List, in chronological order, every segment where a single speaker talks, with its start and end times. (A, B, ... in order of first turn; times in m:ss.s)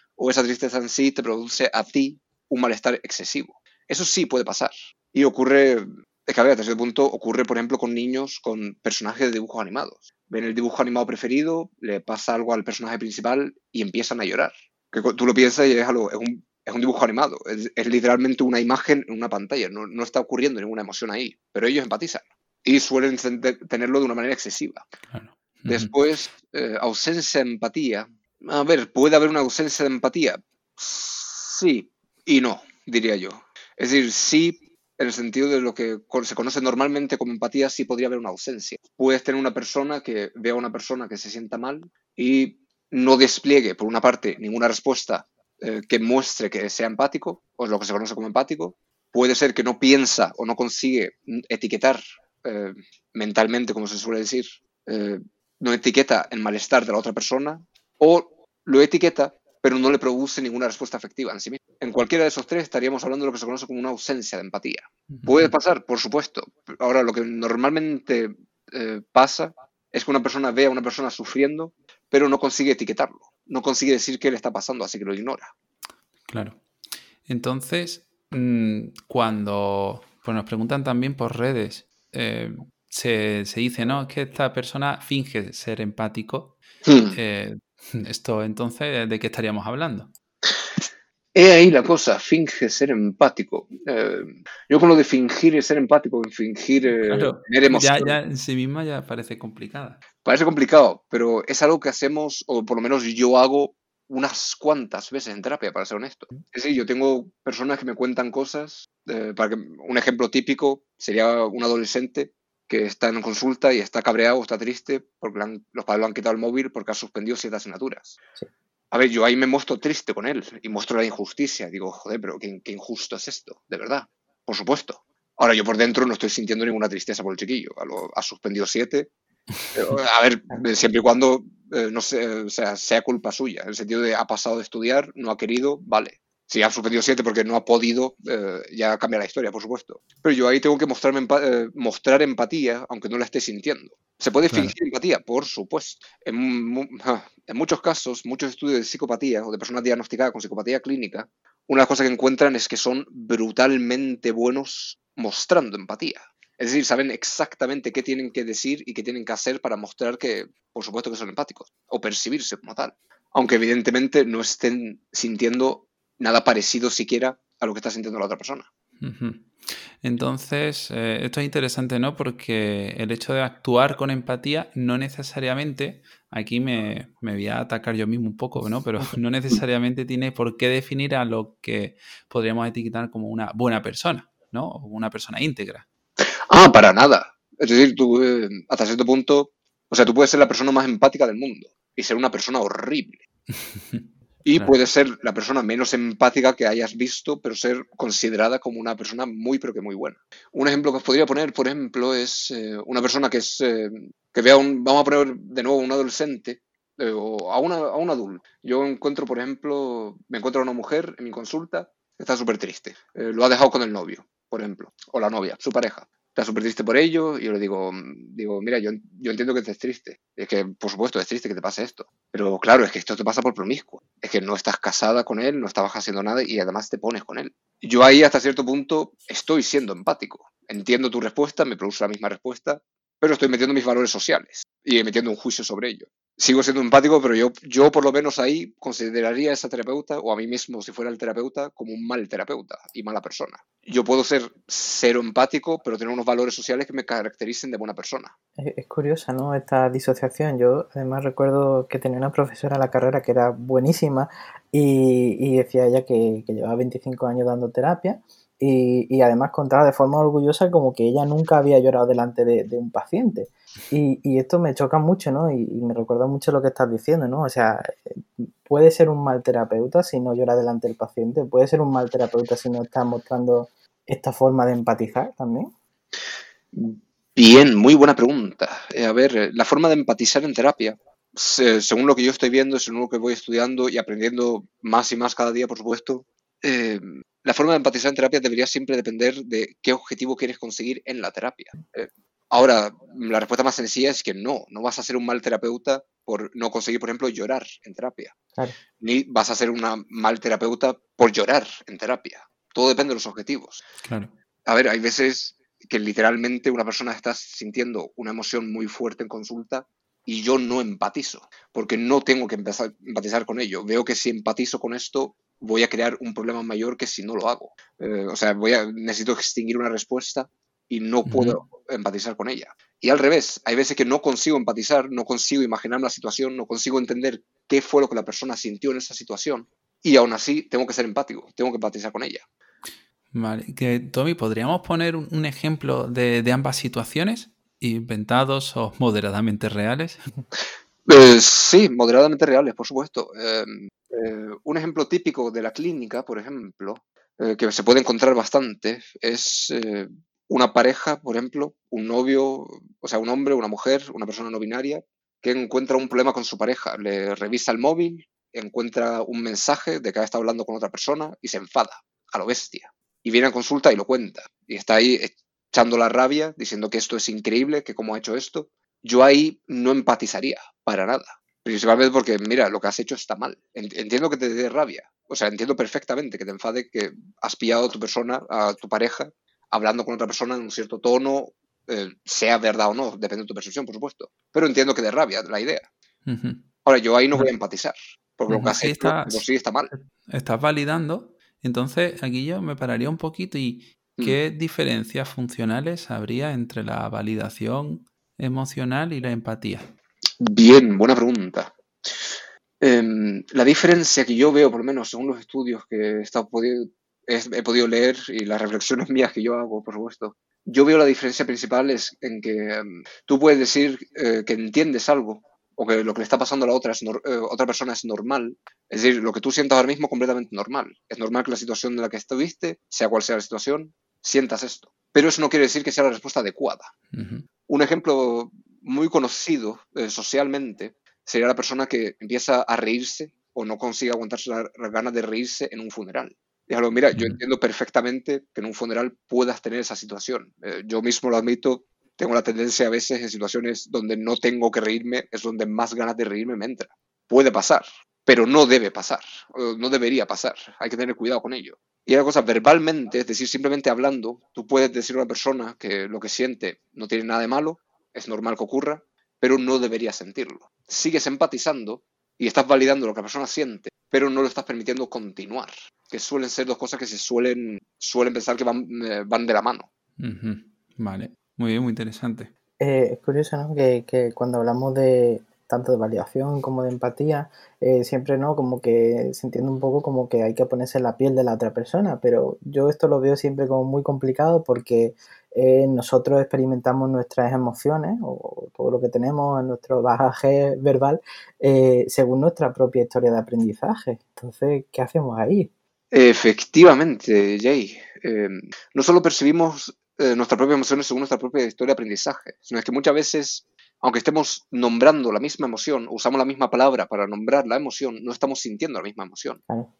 0:00.2-0:24.9 A
0:25.1-0:25.9 B
0:25.7-1:15.5 A
1:05.1-1:05.5 B
1:16.3-1:16.6 B
1:17.2-1:26.6 B
1:26.8-1:27.2 A
1:27.1-1:30.1 B
1:31.3-1:38.2 A
1:37.0-1:40.0 B
1:40.2-1:58.2 A
1:58.9-2:09.1 A
2:09.7-2:48.7 A
2:24.5-2:24.7 B
2:49.0-3:05.8 B
3:06.5-3:13.2 A
3:13.5-3:14.7 B
3:14.4-4:08.3 A
4:08.6-4:35.7 C
4:36.7-4:58.3 A
4:59.0-5:03.8 A
5:04.0-5:04.3 B
5:04.6-5:32.4 A
5:21.2-5:21.6 B
5:33.3-5:40.2 B
5:41.0-6:25.9 A
6:26.2-6:26.6 B
6:26.8-6:29.9 A
6:28.5-6:39.8 B
6:40.4-7:06.9 A
7:07.1-7:07.4 B
7:07.7-7:49.9 A
7:17.1-7:17.4 B
7:50.2-7:52.5 B
7:52.8-8:15.7 C
8:16.1-8:29.6 A